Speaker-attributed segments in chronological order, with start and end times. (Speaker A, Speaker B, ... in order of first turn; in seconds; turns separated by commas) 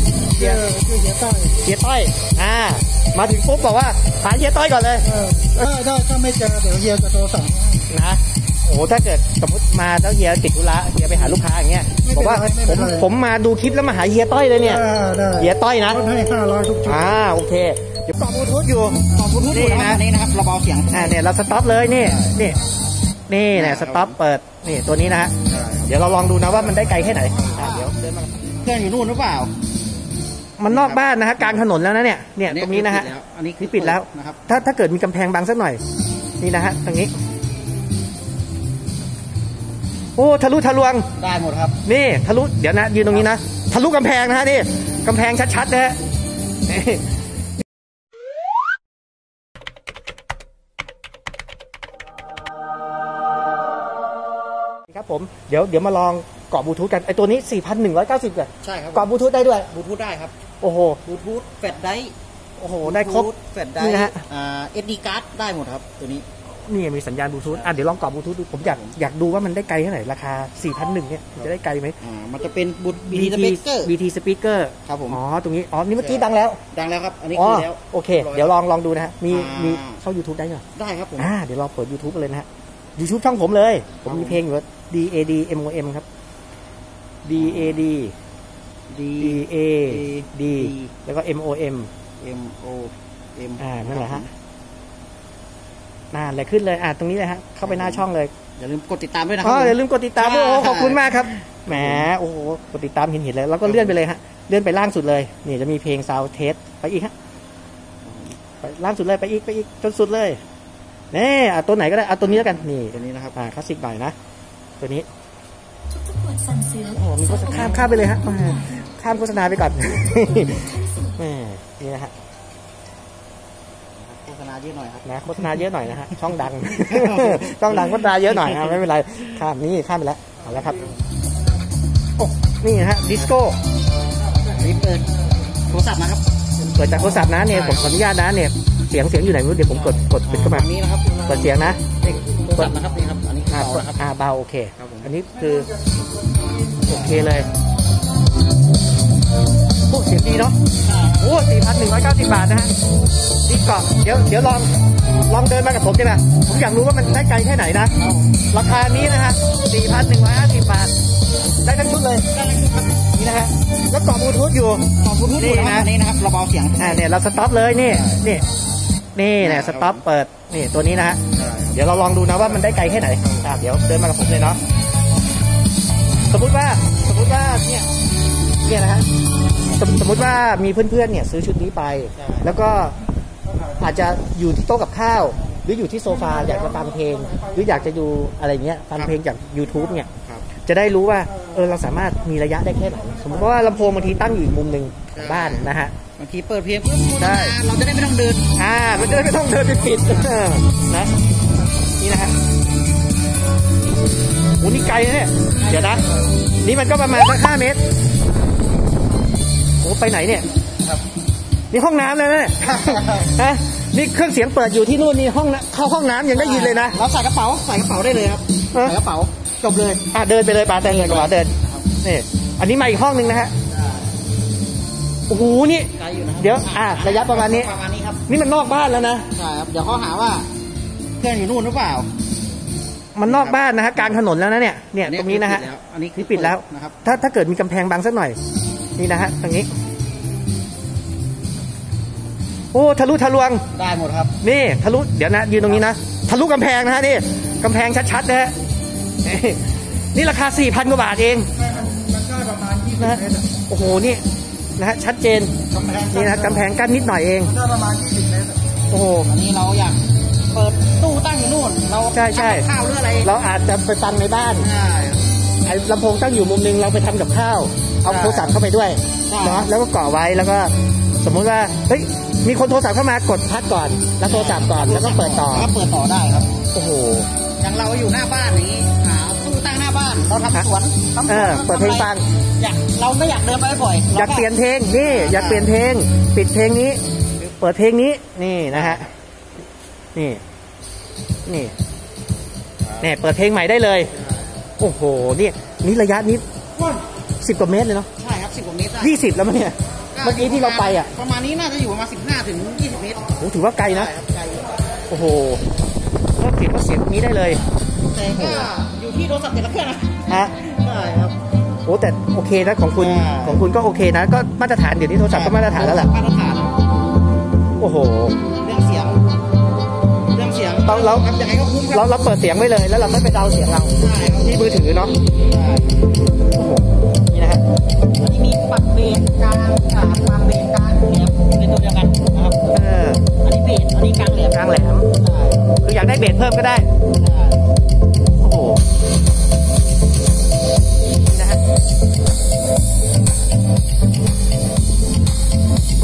Speaker A: 0.4-0.6, Speaker B: 0.4-1.6, Speaker A: 1.6-5.7, Speaker B: 5.0-7.9, Speaker A: 7.9-14.8, Speaker B: 12.0-13.1, Speaker B: 14.6-17.1, Speaker A: 15.4-16.0, Speaker A: 16.9-20.0, Speaker C: 19.1-21.2, Speaker A: 20.9-22.6, Speaker C: 21.9-22.4, Speaker A: 23.3-25.3, Speaker C: 23.5-24.1, Speaker C: 25.5-25.9, Speaker A: 25.9-28.5, Speaker C: 26.5-27.9, Speaker C: 28.5-29.5, Speaker A: 30.6-35.8, Speaker C: 30.7-31.6, Speaker C: 32.5-34.4, Speaker A: 36.4-37.1, Speaker A: 40.2-41.1, Speaker C: 41.2-41.8, Speaker A: 41.9-46.0, Speaker A: 46.7-47.0, Speaker A: 54.9-59.7, Speaker C: 58.6-59.1, Speaker C: 59.7-60.4, Speaker A: 60.6-61.0, Speaker C: 61.0-62.1, Speaker A: 62.6-63.3, Speaker C: 62.8-66.3, Speaker A: 63.8-64.2, Speaker A: 66.5-72.0, Speaker C: 68.5-69.0, Speaker C: 72.0-73.9, Speaker A: 73.1-76.6, Speaker C: 74.9-75.2, Speaker C: 76.0-78.5, Speaker A: 77.3-80.6, Speaker C: 79.3-80.0, Speaker C: 80.8-81.3, Speaker A: 81.2-82.5, Speaker A: 83.0-86.0, Speaker C: 84.0-84.4, Speaker A: 87.2-88.2, Speaker C: 87.3-87.9, Speaker C: 88.9-90.9, Speaker A: 89.2-91.9, Speaker C: 92.2-94.3, Speaker A: 93.6-94.2, Speaker A: 96.1-98.3, Speaker C: 97.6-98.0, Speaker C: 98.6-102.1, Speaker A: 99.4-107.1, Speaker C: 103.6-104.0, Speaker C: 108.0-108.4, Speaker A: 108.6-110.4, Speaker A: 111.1-114.2, Speaker C: 112.2-113.3, Speaker A: 114.8-115.1, Speaker D: 116.0-117.5, Speaker A: 117.0-122.1, Speaker C: 117.5-117.8, Speaker D: 120.7-121.1, Speaker C: 124.0-125.0, Speaker A: 125.0-130.9, Speaker C: 126.7-128.8, Speaker C: 130.6-131.0, Speaker A: 132.2-133.6, Speaker C: 134.5-135.1, Speaker C: 135.7-136.2, Speaker A: 136.8-140.7, Speaker C: 136.9-137.9, Speaker C: 139.7-141.3, Speaker A: 141.2-141.8, Speaker C: 141.9-144.0, Speaker A: 143.5-145.7, Speaker C: 144.8-145.1, Speaker B: 145.3-146.9, Speaker C: 146.9-147.3, Speaker A: 146.9-147.5, Speaker A: 149.9-150.6, Speaker C: 150.8-151.3, Speaker A: 151.2-152.7, Speaker A: 153.5-154.7, Speaker A: 155.3-157.9, Speaker C: 158.0-158.4, Speaker A: 158.5-160.9, Speaker A: 161.6-162.3, Speaker C: 162.3-163.1, Speaker A: 163.2-165.9, Speaker C: 165.0-167.1, Speaker A: 166.8-168.4, Speaker C: 167.8-168.4, Speaker A: 169.2-171.2, Speaker C: 169.4-170.0, Speaker C: 171.3-171.8, Speaker A: 171.7-174.6, Speaker C: 172.4-173.6, Speaker A: 176.3-177.9, Speaker A: 178.7-179.1, Speaker A: 179.7-183.0, Speaker C: 182.2-182.6, Speaker B: 183.5-183.9, Speaker A: 183.8-195.9, Speaker B: 186.1-187.9, Speaker C: 190.2-190.5, Speaker B: 191.3-194.6, Speaker C: 195.1-195.7, Speaker C: 196.2-198.5, Speaker A: 197.2-197.6, Speaker A: 198.6-201.2, Speaker C: 200.0-200.3, Speaker A: 202.0-202.3, Speaker A: 204.6-206.0, Speaker C: 205.6-206.3, Speaker A: 206.6-207.8, Speaker A: 209.8-210.5, Speaker A: 211.7-217.0, Speaker C: 212.6-213.3, Speaker C: 216.3-220.1, Speaker A: 220.1-223.5, Speaker C: 220.8-221.9, Speaker C: 223.7-224.2, Speaker A: 225.3-227.7, Speaker C: 225.9-228.2, Speaker A: 228.3-229.3, Speaker C: 229.3-230.5, Speaker C: 231.2-232.1, Speaker A: 233.2-238.4, Speaker C: 233.2-234.2, Speaker C: 235.0-237.0, Speaker A: 239.0-239.7, Speaker A: 242.7-243.7, Speaker C: 243.7-244.3, Speaker A: 244.4-248.6, Speaker A: 249.2-251.5, Speaker B: 251.6-253.6, Speaker A: 253.0-254.2, Speaker A: 254.8-255.6, Speaker B: 255.7-256.6, Speaker A: 256.1-257.6, Speaker B: 257.5-258.6, Speaker A: 258.9-259.3, Speaker C: 259.3-263.3, Speaker A: 262.1-262.7, Speaker A: 263.2-264.7, Speaker C: 264.6-265.3, Speaker A: 265.6-275.7, Speaker C: 268.1-268.6, Speaker C: 269.3-269.7, Speaker C: 274.2-276.5, Speaker A: 276.7-277.3, Speaker C: 277.6-285.7, Speaker A: 281.3-282.2, Speaker A: 284.1-289.1, Speaker C: 288.7-289.1, Speaker A: 290.1-290.4, Speaker A: 291.5-291.8, Speaker C: 292.8-293.1, Speaker A: 293.0-294.1, Speaker C: 294.1-294.5, Speaker A: 294.8-296.4, Speaker C: 296.8-297.0, Speaker A: 297.4-298.1, Speaker C: 298.2-299.2, Speaker A: 299.0-301.1, Speaker C: 300.1-303.3, Speaker A: 303.4-304.1, Speaker C: 303.8-304.8, Speaker A: 305.1-305.6, Speaker A: 306.4-307.6, Speaker C: 308.1-311.4, Speaker A: 308.3-308.7, Speaker A: 310.3-310.5, Speaker A: 311.9-316.1, Speaker C: 313.0-313.7, Speaker C: 315.3-316.7, Speaker A: 317.8-318.4, Speaker C: 318.6-319.2, Speaker C: 320.3-322.1, Speaker A: 320.9-321.3, Speaker A: 321.9-325.2, Speaker C: 324.0-324.6, Speaker C: 325.4-326.0, Speaker A: 326.5-327.6, Speaker C: 328.2-332.8, Speaker A: 332.7-333.2, Speaker C: 333.4-335.8, Speaker A: 334.3-335.1, Speaker A: 335.8-336.9, Speaker C: 337.1-337.7, Speaker A: 338.4-338.8, Speaker A: 341.3-341.6